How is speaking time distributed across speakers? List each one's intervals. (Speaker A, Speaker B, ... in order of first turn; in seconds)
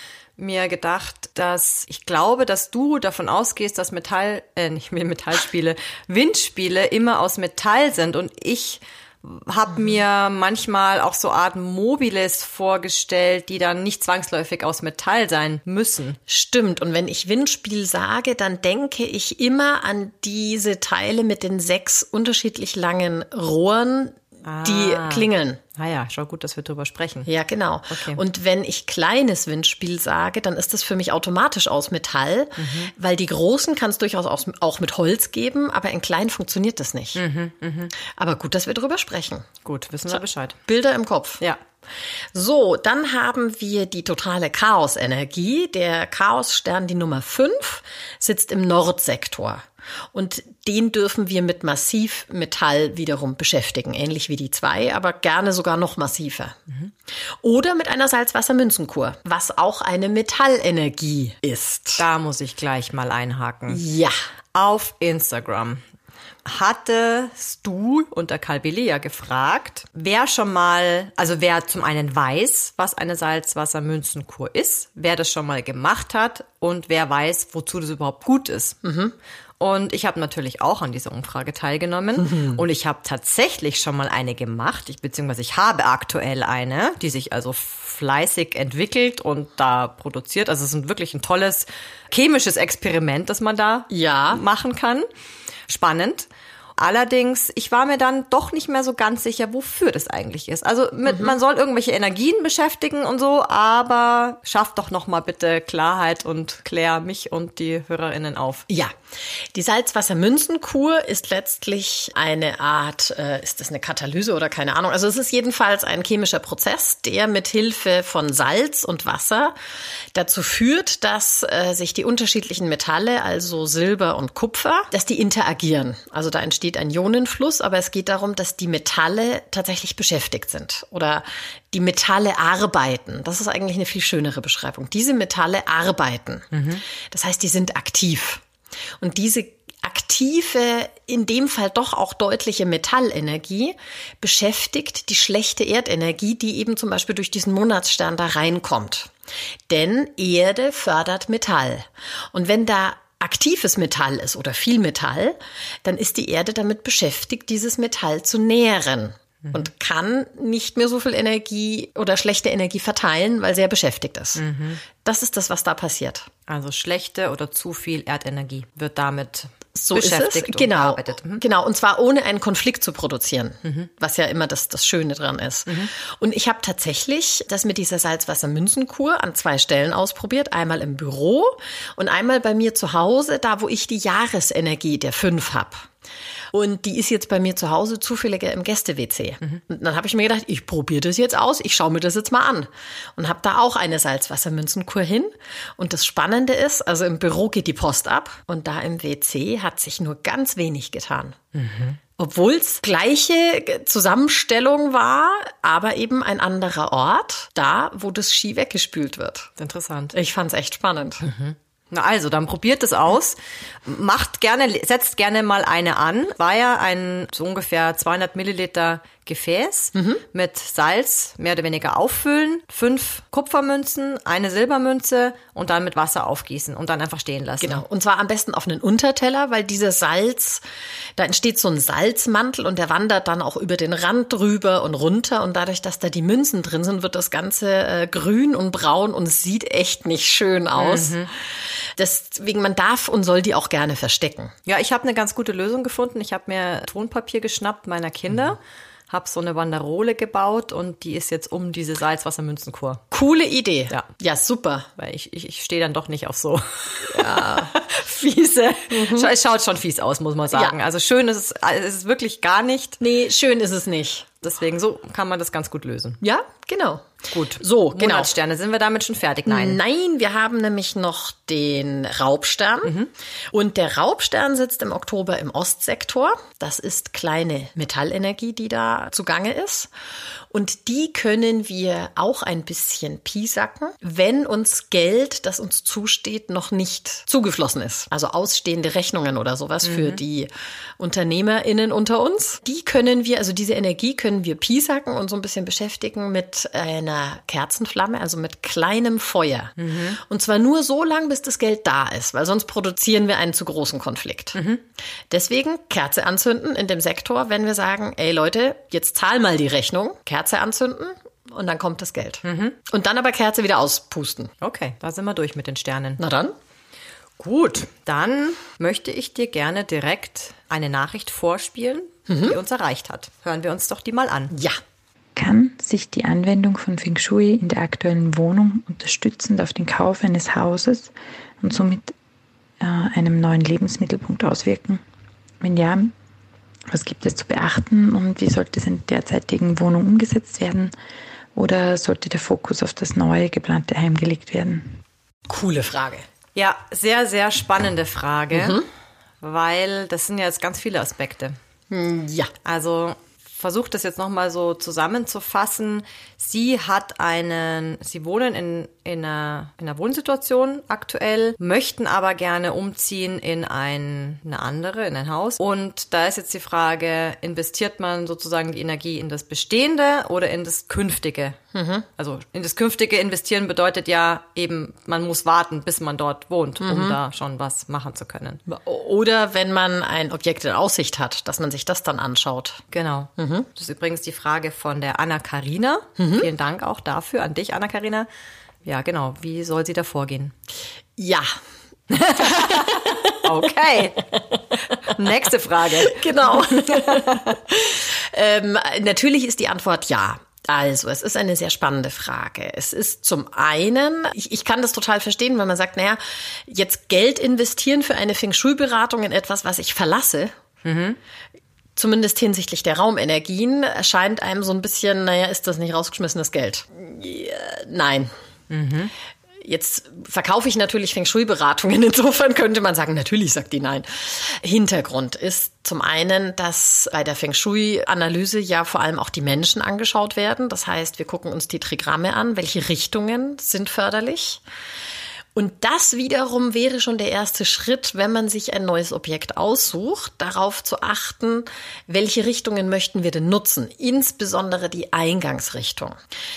Speaker A: 0.4-16.2, 24.4-27.3, 27.9-28.2, 32.6-32.9, 37.1-37.9, 39.6-40.6, 62.0-63.8, 64.5-65.8, 66.4-78.8, 79.6-95.1, 95.7-108.7, 136.5-136.8, 164.3-164.8, 166.5-171.4, 201.5-202.0, 209.6-210.1, 211.2-227.8, 240.8-241.3, 244.7-248.6, 249.1-253.0, 255.0-263.0, 264.4-266.2, 267.3-269.8, 289.8-290.2, 299.8-300.2, 304.5-304.8, 312.4-312.8, 314.6-316.2, 317.4-324.5, 346.5-348.8, 349.4-351.6, 352.6-371.6, 372.2-378.6, 382.9-388.3, 388.8-390.5, 392.1-394.3, 395.1-397.4, 410.8-411.2, 418.7-419.1
Speaker B: 16.3-25.6, 27.2-37.2, 38.1-39.5, 40.1-41.4, 42.3-56.6, 57.4-62.0, 63.7-64.2, 78.8-79.1, 82.3-82.6, 93.9-94.4, 101.1-101.3, 108.7-108.9, 109.5-119.5, 120.1-136.5, 137.1-138.4, 139.0-149.1, 149.7-164.4, 165.0-166.3, 169.8-185.9, 186.5-201.4, 202.2-209.5, 210.1-211.3, 219.9-220.2, 227.6-230.6, 231.2-244.5, 253.1-254.9, 257.1-257.7, 258.9-259.3, 263.0-264.3, 266.2-267.1, 267.6-268.3, 269.4-272.9, 273.5-279.9, 280.5-304.6, 305.3-314.5, 316.2-316.5, 322.3-322.6, 324.5-324.8, 345.5-346.2, 348.5-348.9, 351.9-352.5, 371.7-372.1, 376.8-377.2, 378.7-382.8, 383.4-383.7, 386.2-386.5, 391.2-391.5, 392.3-393.5, 394.3-395.0, 396.0-410.5, 411.9-418.3, 419.6-434.6, 435.5-446.2
Speaker C: 325.4-332.1, 332.8-335.0, 335.6-336.1, 336.9-340.9, 341.5-344.9